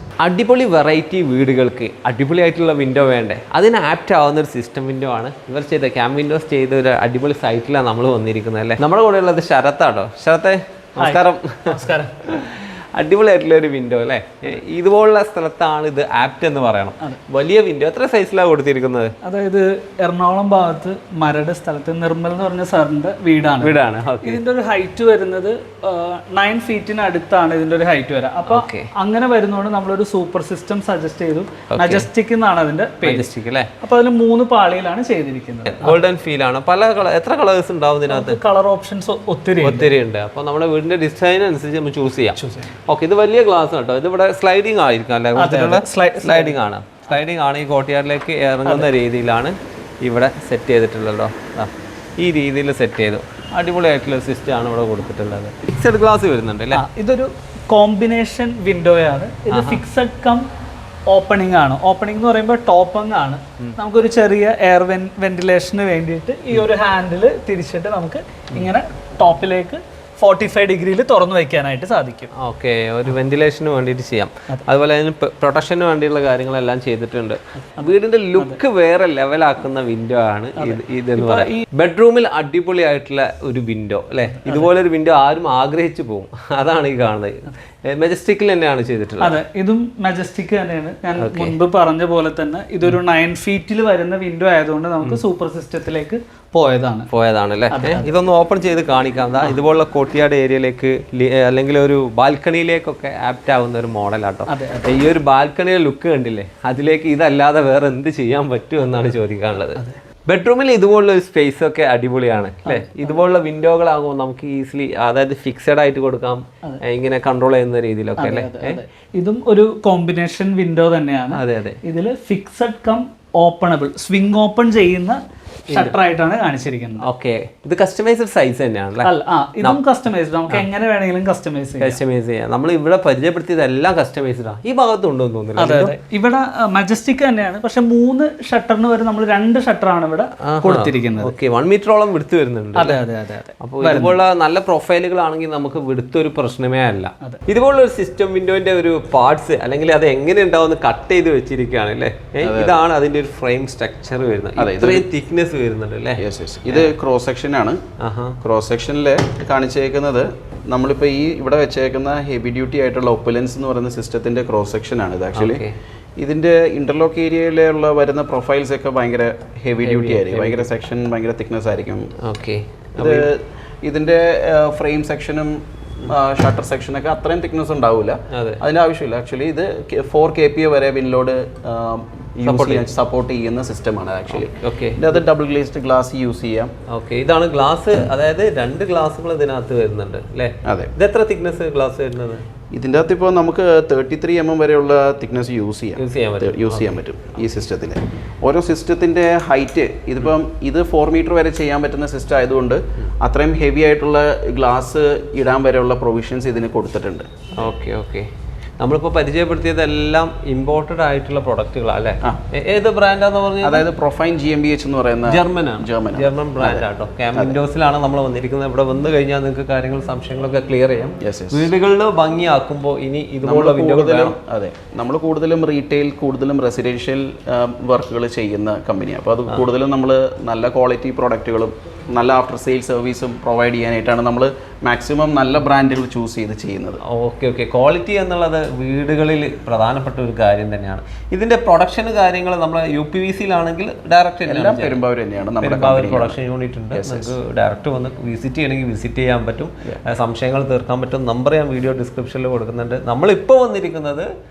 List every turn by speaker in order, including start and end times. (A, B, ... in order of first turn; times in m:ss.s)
0:00.2-0:19.1 A
0:11.0-0:12.2 B
0:19.2-0:33.3 B
0:23.6-0:24.4 A
0:28.5-0:28.9 A
0:31.7-0:32.1 A
0:33.0-0:33.7 A
0:33.8-0:36.0 B
0:35.7-0:38.4 A
0:38.1-0:39.9 B
0:39.6-0:56.8 A
0:45.4-0:46.6 B
0:56.7-1:00.4 B
0:59.5-0:59.8 A
1:01.1-1:12.3 B
1:12.4-1:29.4 A
1:20.6-1:21.6 B
1:29.2-1:37.1 B
1:31.2-1:31.6 A
1:37.1-1:58.8 A
1:37.7-1:38.1 B
1:44.5-1:45.0 B
1:52.7-1:53.1 B
1:58.2-2:07.1 B
2:01.3-2:01.8 A
2:05.7-2:06.0 A
2:07.0-2:09.8 A
2:09.0-2:12.0 B
2:11.8-2:16.0 A
2:15.6-2:21.4 B
2:20.4-2:23.0 A
2:22.8-2:24.2 B
2:23.6-2:36.9 A
2:32.4-2:32.8 C
2:34.6-2:35.1 C
2:36.2-2:37.8 C
2:38.0-2:38.4 A
2:38.4-2:45.6 C
2:45.4-2:45.7 A
2:46.2-2:52.1 C
2:49.8-2:50.7 A
2:52.2-2:53.3 A
2:53.0-2:55.5 C
2:56.0-3:06.7 C
2:58.3-2:58.6 A
3:02.4-3:02.8 A
3:04.4-3:05.1 A
3:06.9-3:12.4 A
3:10.7-3:10.9 C
3:12.7-3:27.3 C
3:16.0-3:17.0 A
3:27.6-3:28.3 A
3:28.8-3:33.9 A
3:33.6-3:37.6 C
3:35.3-3:44.4 A
3:41.2-3:41.7 C
3:43.4-3:57.0 C
3:57.0-4:05.0 A
4:04.5-4:06.4 C
4:05.6-4:14.3 A
4:06.9-4:07.4 C